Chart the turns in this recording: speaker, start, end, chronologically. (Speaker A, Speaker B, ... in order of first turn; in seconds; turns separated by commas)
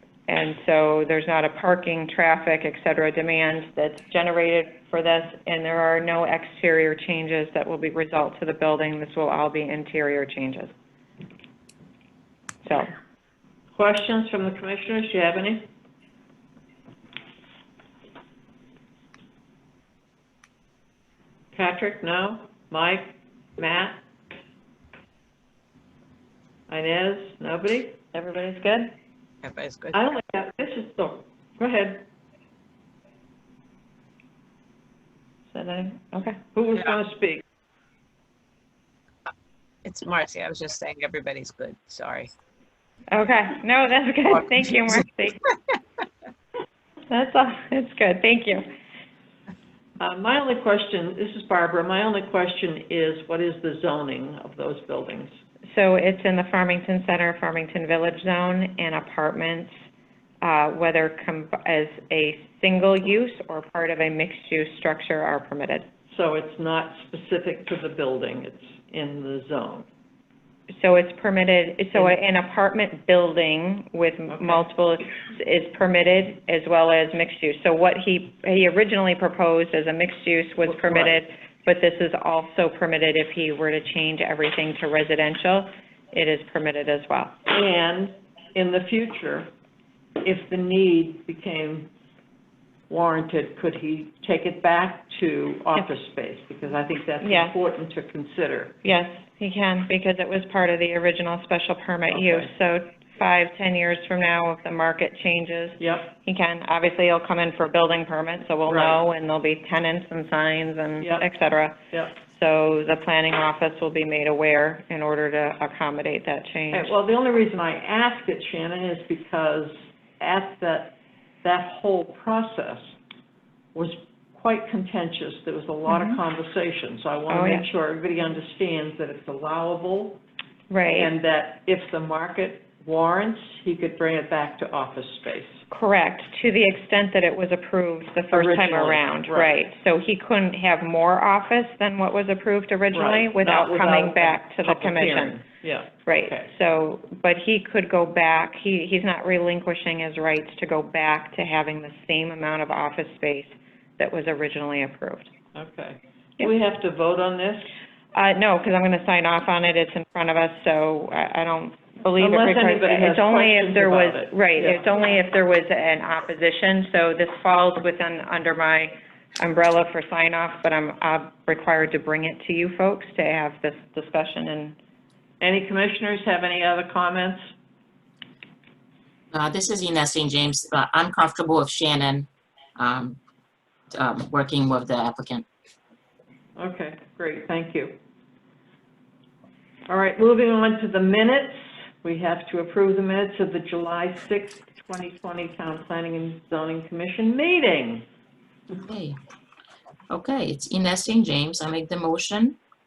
Speaker A: 0.3-10.7, Speaker A: 12.7-12.9, Speaker B: 13.8-15.7, Speaker B: 21.5-24.0, Speaker B: 26.7-28.0, Speaker A: 28.1-28.9, Speaker C: 29.4-30.1, Speaker B: 29.9-32.0, Speaker A: 35.5-36.4, Speaker B: 36.5-37.4, Speaker C: 39.9-42.3, Speaker A: 43.1-45.4, Speaker A: 47.1-48.7, Speaker B: 50.0-55.3, Speaker A: 55.7-59.7, Speaker A: 60.4-65.9, Speaker B: 66.1-69.9, Speaker A: 70.8-87.4, Speaker B: 74.3-74.6, Speaker B: 80.7-81.2, Speaker B: 87.5-89.5, Speaker B: 90.2-91.9, Speaker B: 92.9-98.8, Speaker A: 97.2-97.6, Speaker A: 98.8-116.9, Speaker B: 102.1-102.5, Speaker B: 105.8-106.1, Speaker B: 108.7-109.0, Speaker B: 111.0-111.3, Speaker B: 116.7-122.9, Speaker B: 123.8-130.2, Speaker A: 125.9-126.2, Speaker A: 127.3-127.7, Speaker A: 130.7-131.1, Speaker B: 130.9-135.6, Speaker A: 135.7-145.4, Speaker B: 138.3-139.6, Speaker B: 142.9-146.5, Speaker A: 146.1-155.3, Speaker B: 155.6-157.7, Speaker A: 158.2-174.8, Speaker B: 162.2-164.8, Speaker B: 175.4-177.4, Speaker D: 179.3-183.2, Speaker D: 183.9-185.5, Speaker B: 186.6-187.9, Speaker B: 189.9-198.1, Speaker D: 198.9-199.2, Speaker D: 200.1-202.6